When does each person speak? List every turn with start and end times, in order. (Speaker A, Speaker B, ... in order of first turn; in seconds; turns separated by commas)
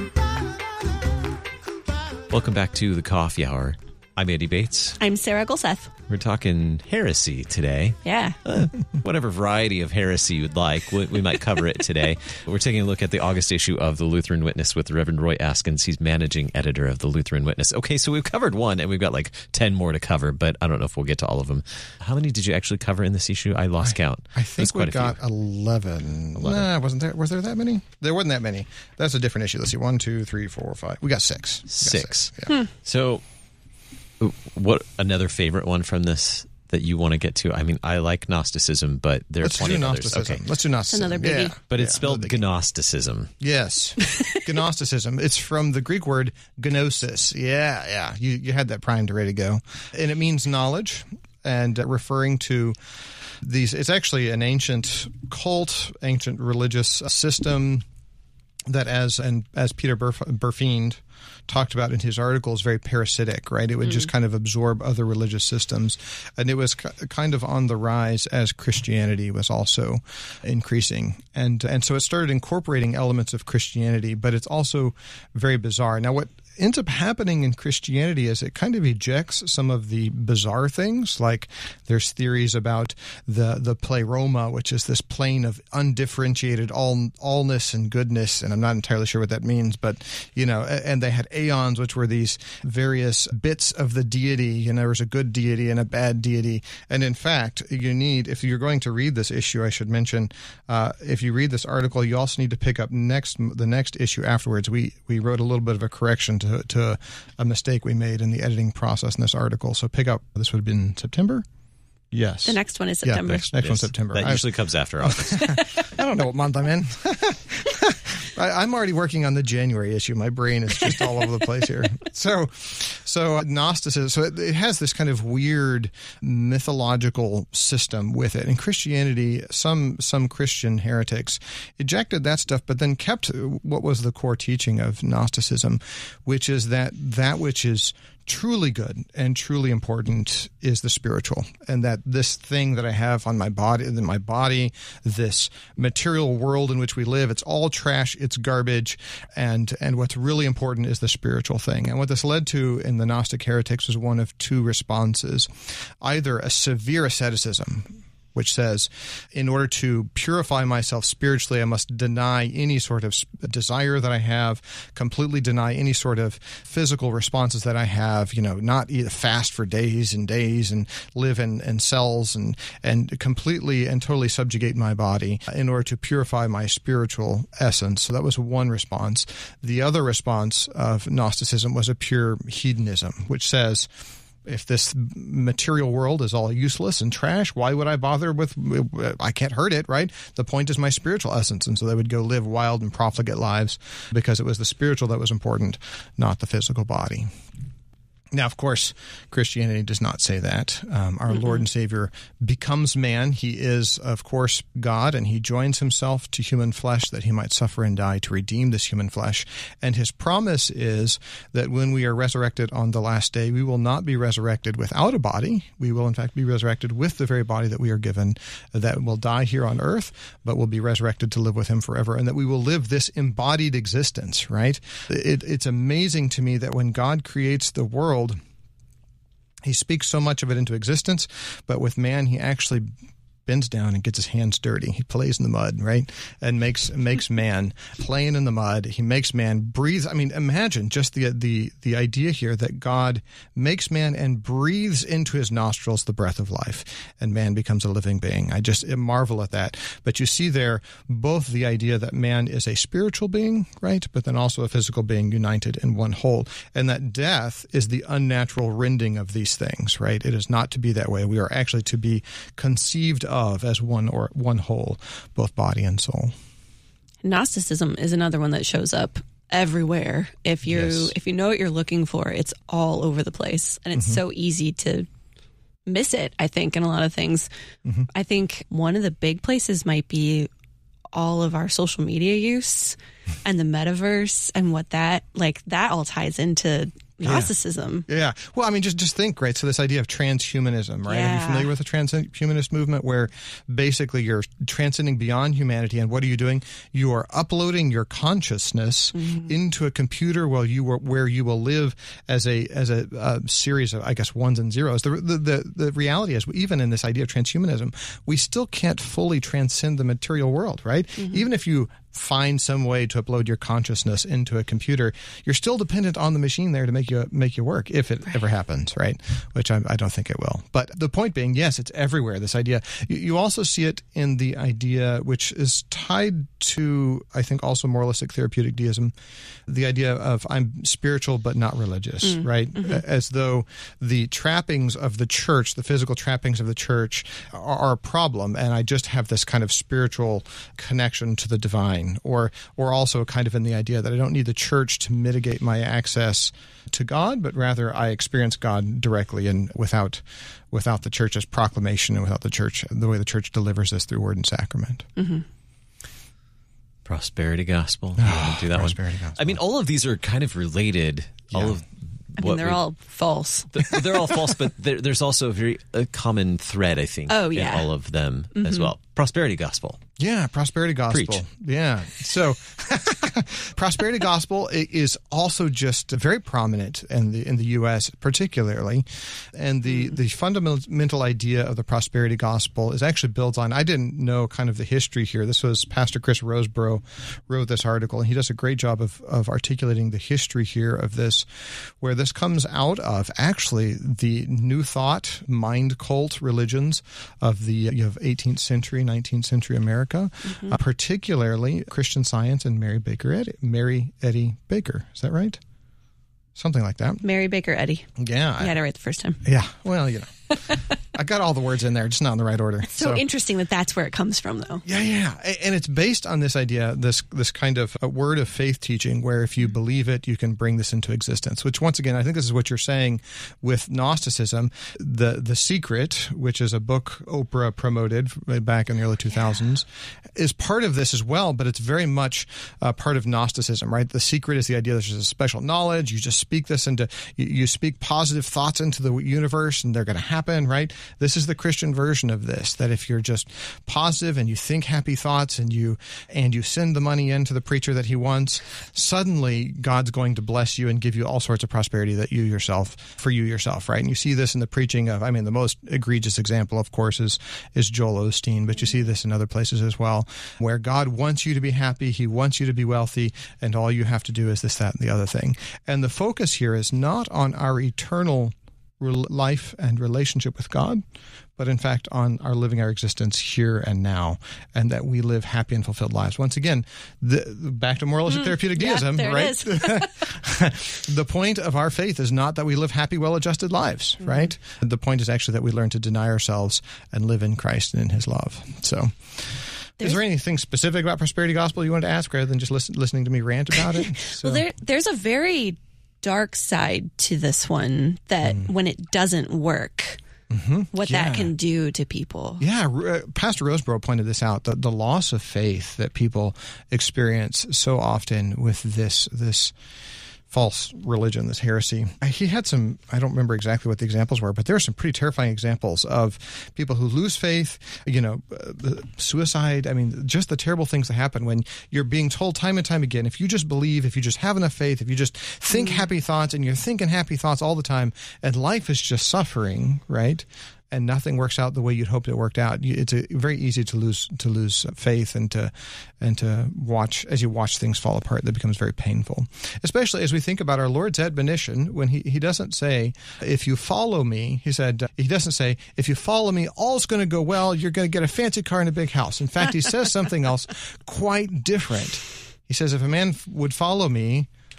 Speaker A: 2.3-5.0, Speaker B: 5.0-5.9, Speaker A: 6.1-25.2, Speaker B: 8.0-8.4, Speaker C: 23.8-32.5, Speaker A: 26.4-26.7, Speaker A: 31.7-33.2, Speaker A: 34.2-40.4, Speaker C: 39.4-42.4, Speaker B: 40.9-41.6, Speaker A: 41.7-43.3, Speaker C: 43.4-52.8, Speaker C: 53.4-57.8, Speaker C: 58.7-111.5, Speaker C: 112.1-114.5, Speaker B: 112.5-113.5, Speaker A: 113.3-115.6, Speaker C: 115.0-183.9, Speaker C: 184.5-197.3, Speaker C: 198.3-228.4, Speaker C: 229.6-232.9, Speaker C: 233.5-266.3, Speaker B: 267.2-275.1, Speaker C: 270.7-271.1, Speaker B: 275.9-277.5, Speaker B: 278.1-280.5, Speaker B: 281.1-288.1, Speaker C: 287.2-287.5, Speaker C: 288.1-329.1, Speaker B: 291.1-291.7, Speaker B: 299.1-299.5, Speaker C: 329.7-355.1, Speaker B: 332.3-333.0, Speaker B: 355.2-355.4, Speaker A: 357.1-362.8, Speaker C: 358.2-359.6, Speaker C: 361.5-361.8, Speaker B: 362.4-364.1, Speaker A: 363.7-370.0, Speaker B: 367.3-367.9, Speaker B: 368.6-368.9, Speaker C: 370.2-405.6, Speaker A: 371.1-371.4, Speaker B: 400.5-400.8, Speaker C: 406.6-407.2, Speaker B: 407.2-408.1, Speaker C: 408.2-408.8, Speaker B: 408.6-409.4, Speaker C: 409.4-413.2, Speaker B: 412.9-414.8, Speaker C: 414.8-471.0, Speaker C: 471.6-494.6, Speaker B: 478.3-480.1, Speaker B: 494.2-500.2, Speaker C: 498.4-498.7, Speaker C: 500.5-501.5, Speaker B: 500.9-502.6, Speaker C: 502.6-509.7, Speaker C: 510.5-554.5, Speaker B: 525.7-526.0